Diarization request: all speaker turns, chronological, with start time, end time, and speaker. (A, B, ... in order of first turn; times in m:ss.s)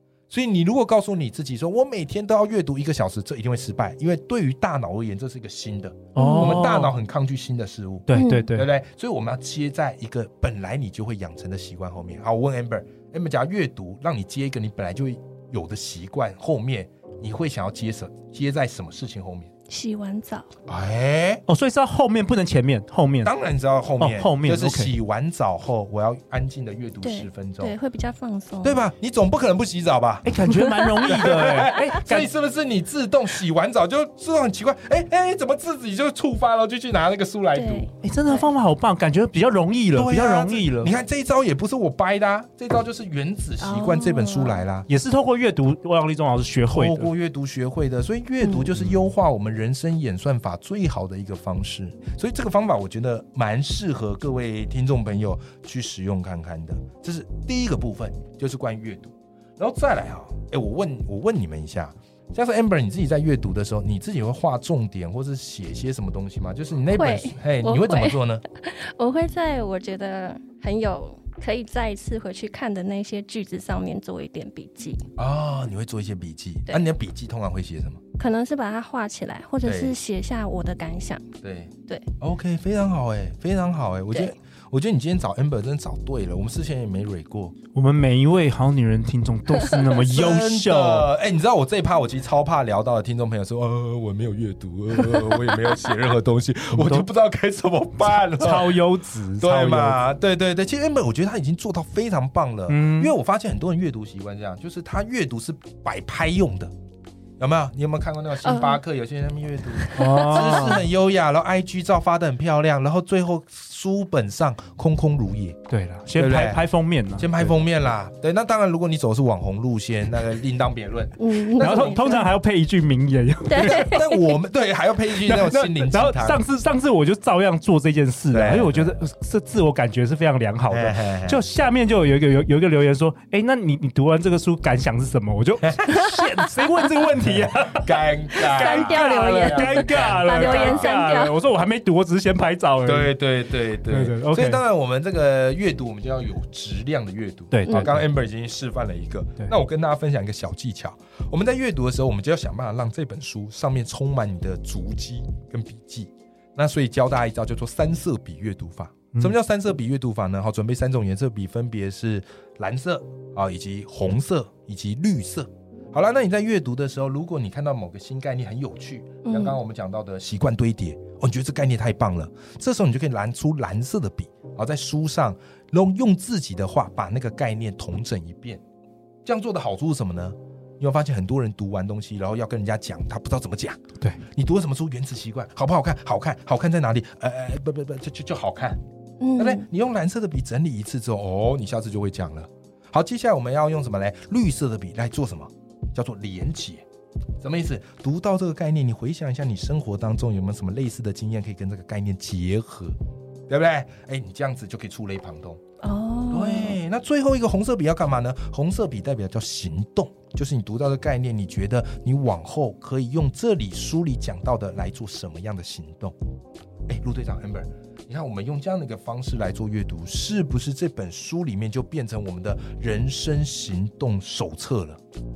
0:00.3-0:19.5 A
0:06.2-0:06.9 B
0:06.2-0:06.6 C
0:08.1-0:08.7 B
0:08.2-0:08.5 C
0:19.7-0:20.5 C
0:20.7-0:21.4 A
0:21.5-0:23.3 B
0:23.2-0:27.8 A
0:24.0-0:24.9 B
0:27.0-0:28.9 C
0:28.6-0:30.4 A
0:30.2-0:32.3 B
0:31.0-0:37.9 A
0:37.5-0:38.5 C
0:38.0-0:40.9 B
0:40.0-0:44.9 A
0:43.6-0:44.6 C
0:44.9-0:47.1 B
0:46.7-1:08.4 A
0:48.4-0:48.7 C
1:06.9-1:15.1 C
1:15.2-1:18.0 A
1:18.2-1:21.2 C
1:19.6-1:20.0 A
1:21.4-1:27.6 A
1:27.7-1:31.1 B
1:30.0-1:38.8 A
1:36.7-1:37.1 B
1:38.2-1:40.0 B
1:39.4-1:46.7 A
1:42.7-1:43.2 B
1:47.4-1:55.6 A
1:48.4-1:48.8 C
1:49.8-1:50.8 C
1:50.0-1:50.8 B
1:55.7-1:57.5 B
1:56.1-2:02.3 A
2:01.2-2:02.3 C
2:01.6-2:04.0 B
2:03.5-2:04.4 C
2:03.6-2:06.4 A
2:05.2-2:23.2 B
2:08.3-2:09.0 A
2:10.7-2:11.4 A
2:15.6-2:16.0 A
2:17.3-2:20.9 A
2:18.5-2:21.4 C
2:22.8-2:58.6 A
2:23.8-2:24.6 B
2:27.5-2:28.0 B
2:49.2-2:49.6 C
2:59.2-3:03.8 A
3:04.3-3:08.8 A
3:09.2-3:09.6 C
3:09.4-3:16.8 A
3:17.4-3:23.0 A
3:23.5-3:25.6 A
3:25.8-3:26.8 C
3:26.3-3:36.2 A
3:36.9-3:45.0 A